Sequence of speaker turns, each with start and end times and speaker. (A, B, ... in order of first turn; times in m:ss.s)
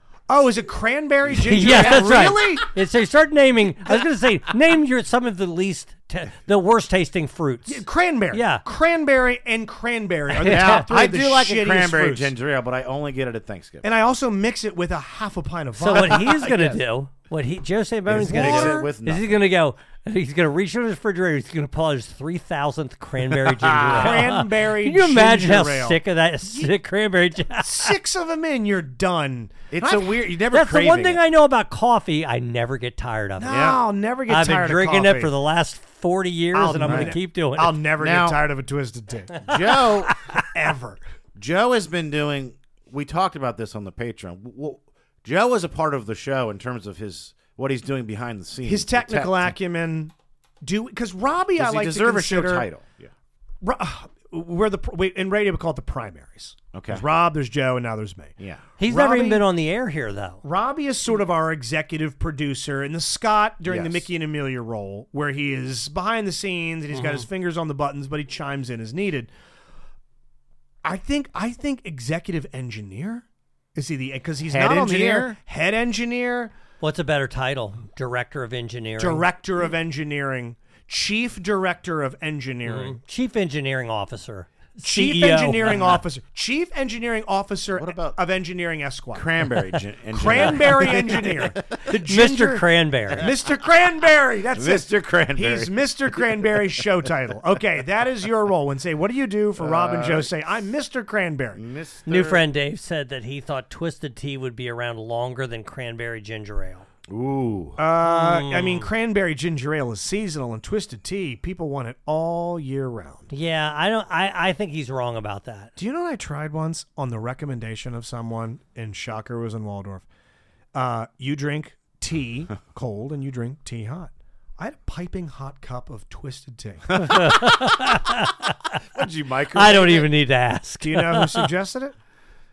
0:00.3-0:02.7 A
0:01.4-0:02.6 B
0:01.4-0:08.6 C
0:07.7-0:12.3 A
0:10.4-0:10.9 C
0:10.4-0:13.9 B
0:13.8-0:16.5 A
0:15.8-0:27.9 C
0:16.2-0:16.8 B
0:18.1-0:19.3 B
0:18.3-0:18.9 A
0:23.3-0:24.2 B
0:23.9-0:26.7 A
0:27.5-0:30.3 A
0:29.7-0:31.2 B
0:30.5-0:33.7 C
0:33.4-0:35.3 A
0:33.5-0:33.8 B
0:34.3-0:37.8 C
0:36.5-0:39.4 A
0:36.8-0:37.1 B
0:38.0-0:38.4 B
0:39.4-0:40.1 B
0:40.4-0:41.0 A
0:41.4-0:49.5 B
0:48.6-0:52.7 A
0:51.6-0:53.1 B
0:53.6-0:59.5 A
0:56.7-0:57.0 B
0:58.4-0:58.6 B
0:58.8-1:00.4 C
1:00.4-1:09.3 A
1:03.6-1:04.1 B
1:06.9-1:07.3 C
1:10.8-1:16.5 A
1:14.5-1:15.4 B
1:16.8-1:19.2 C
1:19.0-1:23.0 A
1:22.6-1:26.0 C
1:24.8-1:29.4 A
1:27.8-1:28.2 B
1:29.1-1:31.8 B
1:30.1-1:32.7 A
1:30.4-1:30.9 C
1:31.9-1:33.3 C
1:33.2-1:41.6 A
1:34.5-1:36.8 B
1:39.6-1:40.3 B
1:41.6-1:42.4 B
1:42.1-1:46.9 C
1:47.1-1:47.8 B
1:47.8-1:53.3 A
1:48.0-1:48.9 C
1:53.3-1:55.7 C
1:55.8-2:00.1 A
2:00.7-2:07.0 A
2:07.0-2:07.3 B
2:07.0-2:08.5 C
2:08.8-2:10.1 B
2:09.5-2:11.5 C
2:10.8-2:11.9 A